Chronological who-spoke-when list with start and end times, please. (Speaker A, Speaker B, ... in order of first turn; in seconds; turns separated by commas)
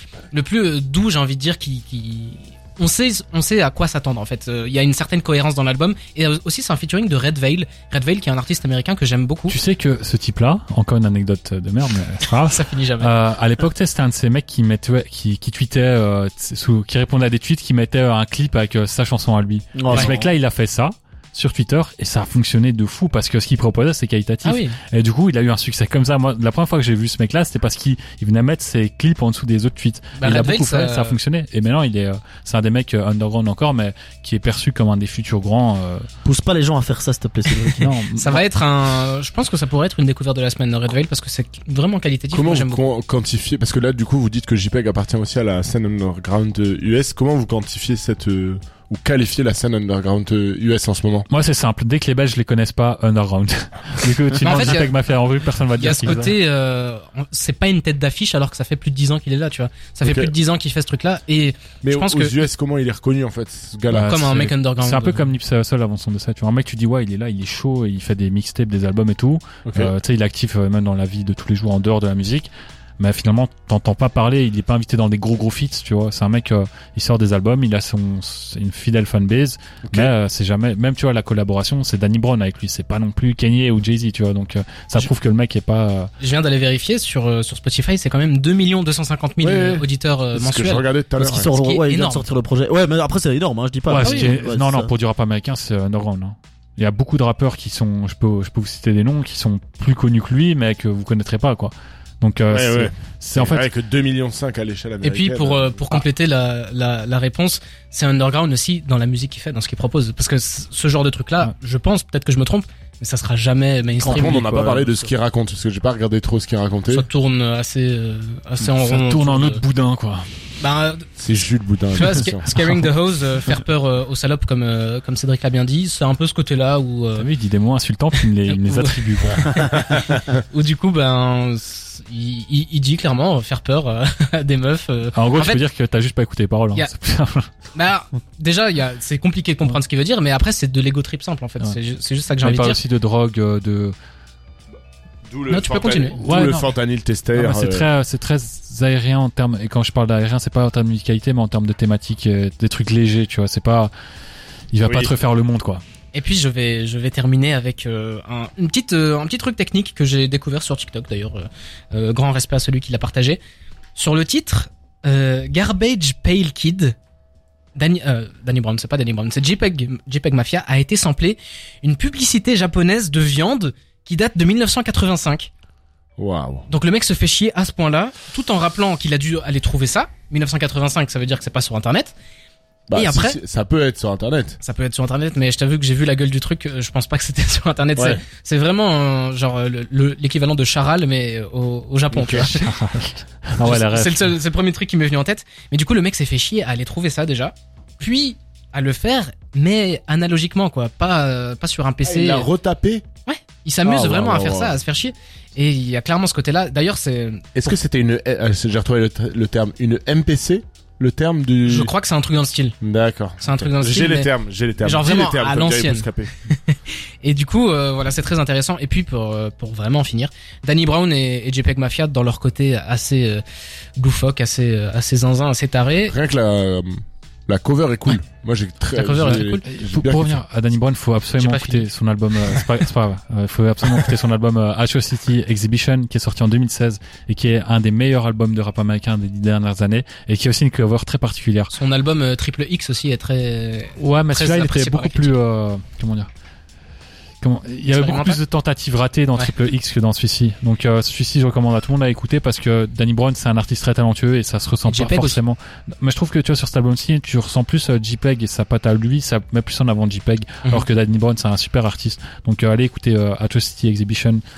Speaker A: 0.3-9.6, Speaker B: 9.5-36.1, Speaker A: 12.4-13.2, Speaker C: 19.8-20.1, Speaker A: 19.9-20.2, Speaker A: 24.4-24.8, Speaker A: 30.1-31.2, Speaker D: 36.3-37.8, Speaker B: 37.8-38.4, Speaker A: 38.1-42.9, Speaker C: 42.3-51.3, Speaker B: 51.3-56.3, Speaker A: 54.4-54.9, Speaker A: 55.8-62.5, Speaker C: 61.8-64.4, Speaker B: 63.9-86.1, Speaker A: 64.0-65.3, Speaker C: 69.7-69.9, Speaker A: 86.2-92.3, Speaker C: 89.4-91.6, Speaker D: 91.2-94.9, Speaker B: 93.9-103.7, Speaker A: 94.0-94.4, Speaker C: 102.5-105.8, Speaker A: 105.0-114.6, Speaker C: 114.0-117.0, Speaker D: 114.2-115.0, Speaker A: 116.9-119.6, Speaker B: 118.6-120.4, Speaker A: 120.6-121.1, Speaker C: 121.2-122.6, Speaker A: 121.9-127.3, Speaker B: 127.2-129.9, Speaker A: 128.5-135.6, Speaker B: 135.1-137.5, Speaker A: 137.7-142.8, Speaker B: 142.4-143.9, Speaker C: 145.3-147.9, Speaker A: 145.5-146.2, Speaker B: 146.2-146.7, Speaker B: 147.3-153.9, Speaker B: 154.7-155.8, Speaker C: 154.8-155.1, Speaker A: 156.1-163.4, Speaker A: 163.9-167.0, Speaker A: 167.8-175.5, Speaker C: 176.2-176.7, Speaker A: 176.7-182.2, Speaker C: 182.9-184.6, Speaker A: 182.9-183.4, Speaker A: 184.6-192.7, Speaker C: 192.1-192.5, Speaker B: 192.4-194.3, Speaker A: 193.6-202.5, Speaker C: 202.1-203.1, Speaker A: 203.2-207.5, Speaker C: 203.8-204.8, Speaker C: 207.6-211.9, Speaker A: 211.6-212.8, Speaker C: 212.8-216.3, Speaker A: 213.4-223.4, Speaker A: 224.0-226.2, Speaker C: 226.1-230.4, Speaker A: 228.9-229.6, Speaker B: 229.2-241.7, Speaker A: 231.4-231.9, Speaker A: 241.7-245.4, Speaker B: 243.9-246.3, Speaker B: 247.4-264.4, Speaker A: 247.9-248.4, Speaker A: 254.8-255.4